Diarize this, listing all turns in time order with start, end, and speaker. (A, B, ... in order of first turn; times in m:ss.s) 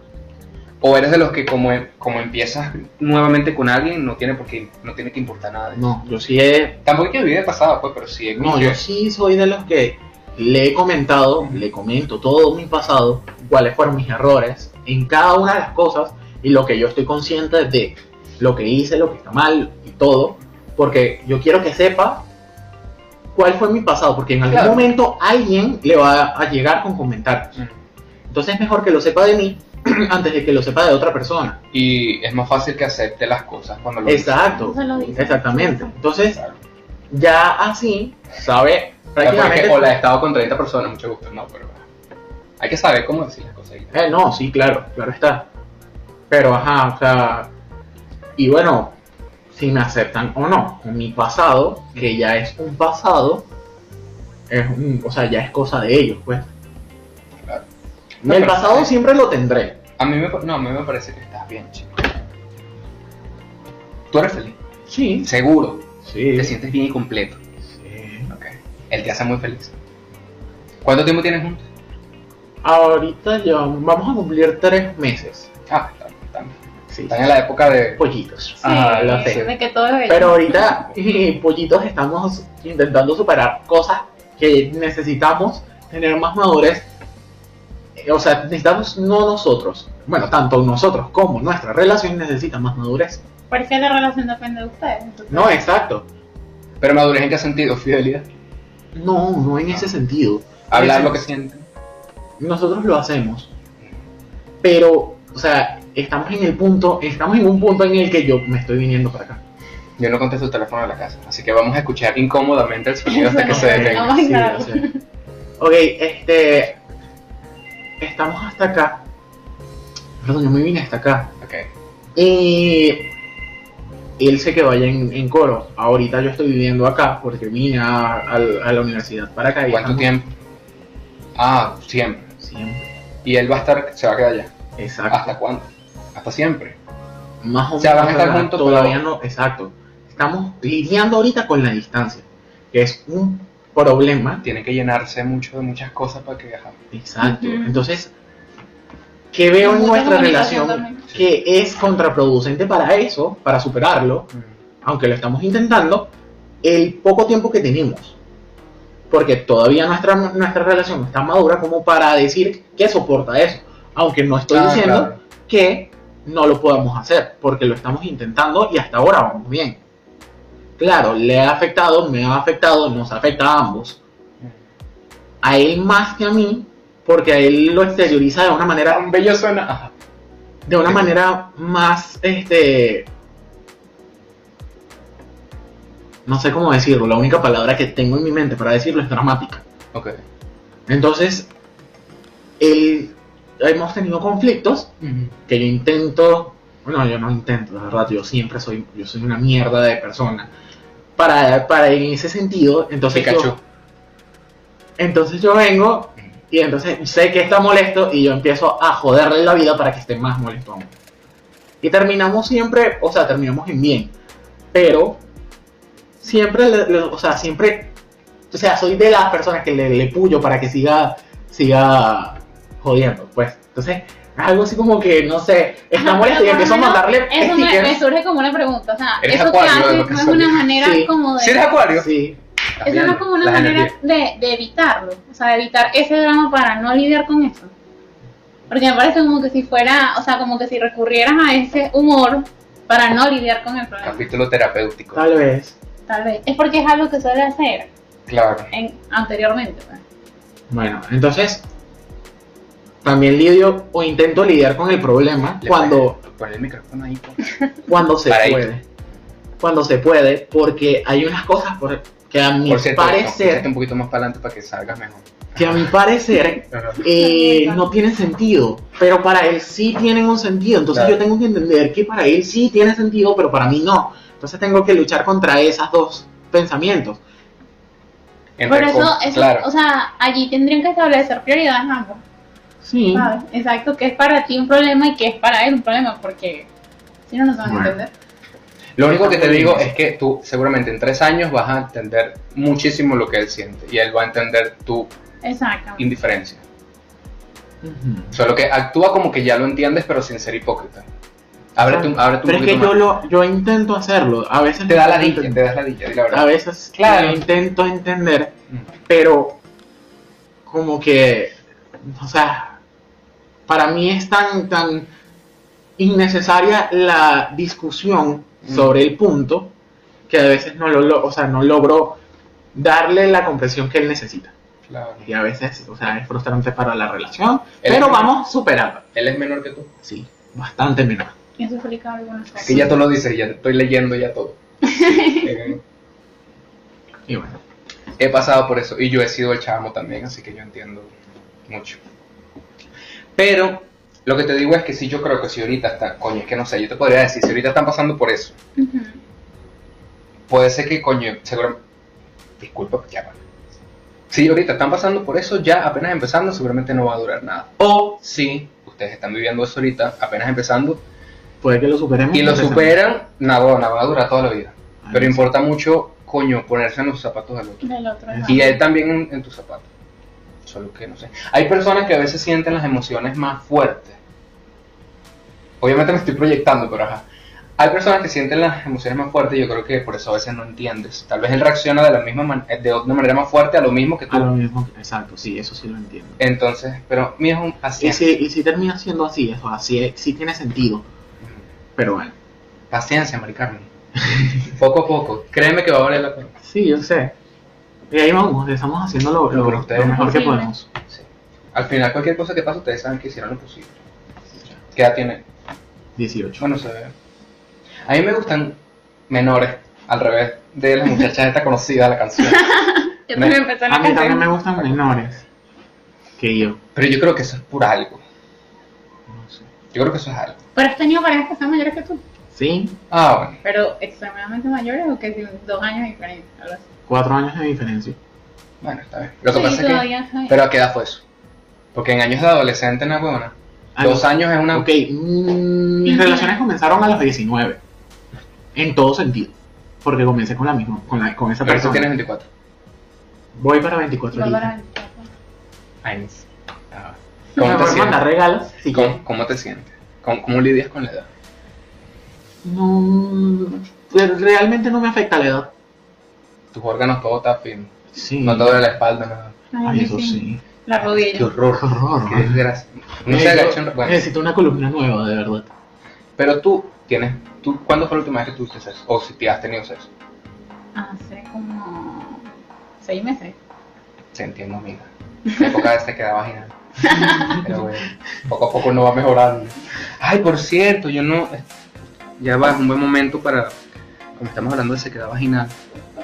0:00.8-0:06.0 A
0:05.7-0:06.8 B
0:06.8-0:08.8 A
0:08.4-0:22.3 B
0:23.3-0:27.6 B
0:24.5-0:24.9 A
0:28.3-0:31.6 B
0:31.7-0:34.7 A
0:34.0-0:36.4 B
0:34.6-0:36.0 C
0:36.2-0:36.6 A
0:37.1-0:39.9 B
0:39.2-0:41.8 A
0:42.6-0:43.9 A
0:43.9-0:45.5 B
0:46.3-0:47.5 B
0:48.4-0:49.0 B
0:49.5-0:53.4 B
0:54.5-0:56.5 B
0:58.2-0:58.9 A
0:58.2-0:59.8 B
1:00.0-1:02.1 A
1:04.1-1:04.6 A
1:04.9-1:05.3 B
1:05.2-1:07.4 A
1:06.0-1:06.6 B
1:07.6-1:08.3 B
1:08.3-1:09.7 A
1:10.8-1:11.6 A
1:12.6-1:15.5 B
1:15.7-1:16.5 A
1:16.9-1:17.3 B
1:17.1-1:18.0 A
1:17.9-1:19.5 B
1:18.6-1:19.5 A
1:18.6-1:20.6 C
1:20.1-1:26.9 B
1:28.0-1:33.2 B
1:33.5-1:35.7 C
1:35.3-1:36.1 B
1:36.8-1:38.3 A
1:38.9-1:41.3 B
1:40.7-1:41.6 A
1:42.4-1:43.5 B
1:44.6-1:49.4 B
1:50.0-1:54.1 A
1:53.1-1:55.0 C
1:53.5-1:54.8 B
1:55.6-1:56.8 B
1:58.0-1:59.0 B
2:00.2-2:01.3 B
2:01.4-2:01.7 A
2:02.1-2:03.1 B
2:04.2-2:10.1 B
2:09.7-2:10.3 A
2:11.4-2:12.3 A
2:12.4-2:12.9 B
2:13.2-2:14.5 A
2:14.8-2:15.4 B
2:15.1-2:16.8 A
2:17.4-2:24.4 B
2:17.8-2:19.0 A
2:24.4-2:26.8 A
2:26.9-2:28.1 B
2:27.2-2:27.8 C
2:29.3-2:34.3 B
2:29.6-2:31.0 C
2:34.8-2:36.1 B
2:36.6-2:38.2 B
2:39.1-2:49.8 B
2:44.5-2:45.2 A
2:50.8-2:54.0 B
2:55.4-2:59.1 B
2:58.9-2:59.9 A
3:00.6-3:03.1 B
3:06.2-3:09.6 B
3:09.9-3:10.2 A
3:10.9-3:11.5 B
3:12.6-3:14.9 B
3:15.0-3:15.3 A
3:15.5-3:20.5 B
3:21.2-3:23.5 B
3:23.1-3:23.6 A
3:25.0-3:30.9 B
3:31.8-3:34.1 B
3:34.7-3:35.2 B
3:36.2-3:37.9 B
3:38.5-3:48.0 B
3:46.0-3:51.8 C
3:49.2-3:50.7 A
3:50.7-3:51.1 B
3:51.4-3:52.1 A
3:51.9-3:52.4 B
3:52.8-3:53.9 A
3:52.8-3:57.7 C
3:58.7-4:04.2 C
4:04.0-4:05.2 A
4:05.1-4:05.8 B
4:06.1-4:07.9 C
4:08.3-4:08.7 A
4:08.7-4:10.0 C
4:10.7-4:11.6 B
4:13.0-4:16.2 B
4:15.6-4:17.5 A
4:17.8-4:18.8 B
4:18.3-4:18.7 A
4:19.6-4:23.7 B
4:22.6-4:25.9 A
4:25.6-4:37.2 B
4:26.7-4:27.0 A
4:27.1-4:27.9 C
4:30.9-4:31.2 A
4:38.6-4:39.7 A
4:38.6-4:42.2 C
4:42.8-4:43.3 B
4:43.1-4:46.7 C
4:47.3-4:48.1 C
4:47.6-4:48.0 B
4:49.0-4:55.1 A
4:49.0-4:49.9 B
4:55.4-4:56.1 C
4:56.0-4:56.6 A
4:57.8-4:58.3 B
4:58.3-5:01.0 A
5:01.8-5:03.0 A
5:01.8-5:05.6 B
5:04.9-5:07.4 A
5:06.3-5:08.5 B
5:09.1-5:09.6 B
5:10.7-5:12.8 B
5:13.7-5:15.1 B
5:16.0-5:19.7 B
5:18.6-5:19.0 A
5:20.3-5:22.2 B
5:22.7-5:24.5 B
5:24.9-5:25.3 A
5:25.2-5:29.0 B
5:27.8-5:28.3 A
5:29.1-5:29.9 A
5:30.0-5:31.3 B
5:31.6-5:33.0 C
5:32.6-5:35.8 A
5:34.9-5:35.5 C
5:37.3-5:37.6 B
5:38.2-5:41.1 A
5:41.7-5:42.0 A
5:43.4-5:48.5 A
5:48.8-5:49.2 C
5:50.5-5:51.8 A
5:52.6-5:53.4 A
5:54.3-6:01.0 A
6:01.6-6:02.9 B
6:02.3-6:07.9 A
6:05.0-6:05.5 B
6:07.8-6:08.8 C
6:08.3-6:08.6 B
6:08.4-6:09.9 A
6:10.6-6:14.2 A
6:15.8-6:17.2 A
6:17.8-6:24.5 A
6:24.3-6:26.4 B
6:26.4-6:28.3 A
6:28.0-6:31.0 B
6:32.0-6:32.3 B
6:32.9-6:33.9 A
6:34.6-6:36.5 A
6:36.6-6:37.3 B
6:38.1-6:40.9 B
6:39.5-6:40.4 A
6:40.0-6:40.7 C
6:41.1-6:44.0 A
6:44.8-6:45.4 A
6:46.2-6:46.7 B
6:46.6-6:47.1 A
6:48.0-6:48.8 A
6:49.3-6:52.7 A
6:52.4-6:54.5 C
6:53.3-6:53.6 A
6:53.9-6:55.4 B
6:54.8-6:55.2 A
6:56.4-6:56.8 B
6:56.9-6:58.2 A
6:59.3-6:59.6 B
6:59.9-7:00.6 A
7:00.7-7:02.2 C
7:02.5-7:03.0 B
7:03.1-7:03.6 A
7:03.6-7:06.8 C
7:07.1-7:08.2 B
7:08.8-7:11.2 A
7:09.5-7:10.6 C
7:11.9-7:14.9 A
7:14.0-7:17.8 B
7:16.0-7:16.6 C
7:18.7-7:22.1 B
7:21.6-7:22.5 A
7:23.5-7:24.7 B
7:24.3-7:25.3 C
7:26.0-7:28.3 A
7:27.6-7:29.2 B
7:28.9-7:31.3 A
7:32.6-7:35.7 B
7:36.7-7:37.9 A
7:38.1-7:38.8 B
7:38.4-7:39.6 A
7:39.7-7:41.5 C
7:39.8-7:40.6 B
7:41.0-7:44.2 A
7:41.7-7:42.6 B
7:43.3-7:45.7 B
7:46.4-7:50.1 A
7:50.9-7:52.5 C
7:53.0-7:53.6 C
7:54.3-8:01.6 A
7:57.0-7:57.6 C
8:02.4-8:03.7 A
8:04.4-8:05.8 A